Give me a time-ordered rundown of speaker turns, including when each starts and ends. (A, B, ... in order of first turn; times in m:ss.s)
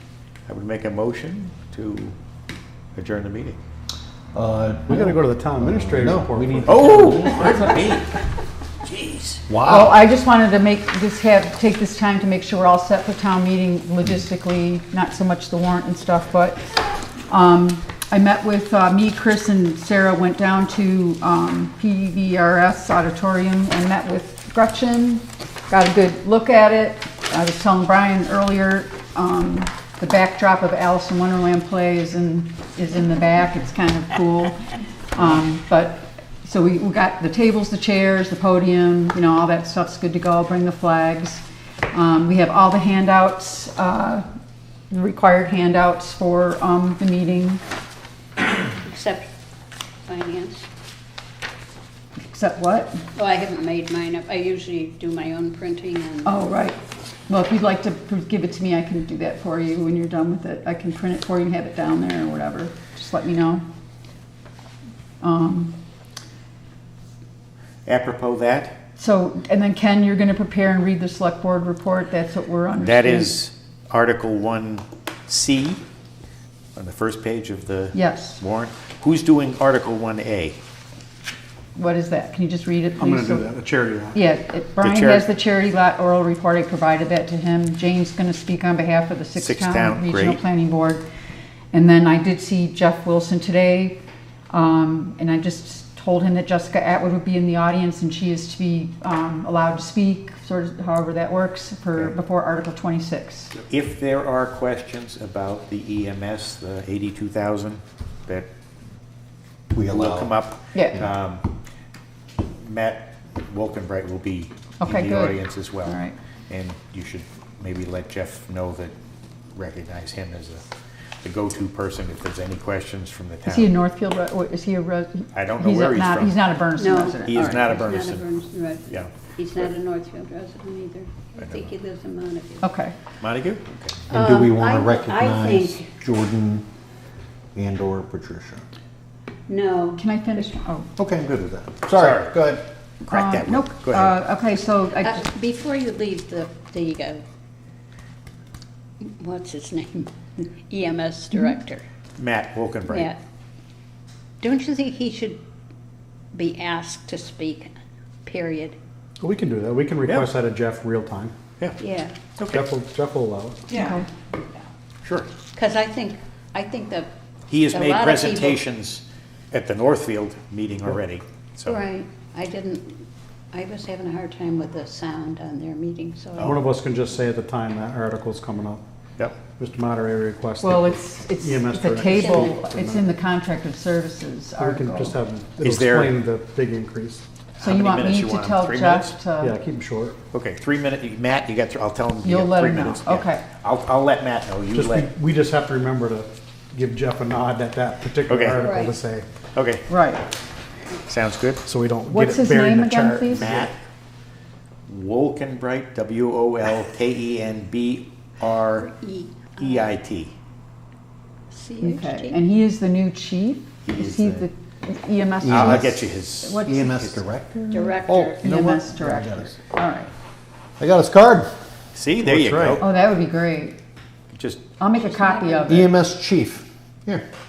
0:00.5-0:02.2 A
0:02.9-0:03.6 A
0:04.3-0:07.5 B
0:04.9-0:07.7 C
0:06.6-0:08.2 A
0:08.8-0:09.5 A
0:09.5-0:10.0 B
0:09.6-0:16.7 D
0:17.3-0:44.2 D
0:44.9-0:47.6 D
0:48.8-0:49.3 E
0:50.1-0:50.7 E
0:52.3-0:53.0 D
0:53.1-0:56.4 E
0:56.2-1:03.6 D
1:05.2-1:05.8 D
1:07.9-1:08.8 A
1:09.0-1:13.4 D
1:12.8-1:15.8 A
1:16.8-1:20.6 A
1:17.9-1:18.4 D
1:21.8-1:23.5 D
1:23.0-1:24.2 C
1:24.1-1:31.0 D
1:24.8-1:25.2 A
1:29.4-1:30.4 A
1:31.7-1:43.5 D
1:43.6-1:48.5 A
1:49.7-1:50.4 B
1:49.9-1:51.5 A
1:50.7-1:51.0 D
1:52.4-1:56.0 A
1:54.8-1:56.2 D
1:56.5-1:58.9 A
1:59.5-2:00.6 A
2:01.2-2:03.7 A
2:03.5-2:07.6 D
2:05.3-2:06.4 A
2:06.8-2:12.7 E
2:07.2-2:08.3 A
2:11.4-2:11.7 A
2:12.6-2:12.9 D
2:13.2-2:14.0 A
2:14.1-2:15.9 E
2:14.1-2:16.6 B
2:17.5-2:18.7 B
2:19.5-2:20.5 E
2:20.0-2:20.9 D
2:21.0-2:22.6 B
2:21.9-2:22.3 A
2:23.1-2:25.2 D
2:23.1-2:24.2 A
2:25.0-2:27.2 E
2:29.0-2:31.8 E
2:32.2-2:33.1 A
2:32.9-2:33.2 E
2:34.4-2:35.4 E
2:36.3-2:37.7 E
2:38.2-2:38.8 E
2:39.2-2:41.4 C
2:40.0-2:40.3 A
2:41.8-2:42.2 E
2:42.4-2:42.7 A
2:42.5-2:43.6 C
2:43.7-2:44.0 E
2:43.8-2:44.0 D
2:45.0-2:45.3 A
2:45.5-2:47.1 E
2:47.5-2:51.8 A
2:47.7-2:48.6 E
2:51.6-2:56.6 E
2:56.4-2:58.8 C
2:59.4-3:03.1 C
3:00.6-3:05.2 D
3:02.0-3:02.6 E
3:04.6-3:07.2 C
3:05.6-3:06.2 A
3:07.6-3:09.2 A
3:07.6-3:09.6 D
3:09.3-3:10.2 C
3:10.3-3:15.1 A
3:12.2-3:13.4 D
3:14.7-3:19.3 C
3:18.2-3:18.7 A
3:18.6-3:19.0 E
3:19.5-3:19.8 A
3:19.9-3:20.2 D
3:21.0-3:21.6 A
3:21.6-3:23.7 C
3:22.1-3:23.5 D
3:23.3-3:23.8 A
3:24.9-3:28.9 A
3:28.8-3:29.9 E
3:29.6-3:30.3 A
3:31.5-3:32.4 E
3:31.8-3:37.0 D
3:33.8-3:34.5 A
3:35.4-3:36.0 B
3:35.5-3:37.2 A
3:36.6-3:39.5 B
3:37.7-3:38.4 E
3:38.4-3:40.1 D
3:40.8-3:41.5 B
3:41.9-3:42.8 A
3:42.2-3:42.8 B
3:42.8-3:43.8 D
3:44.3-3:44.6 A
3:44.8-3:45.9 D
3:44.9-3:45.9 E
3:45.7-3:47.2 B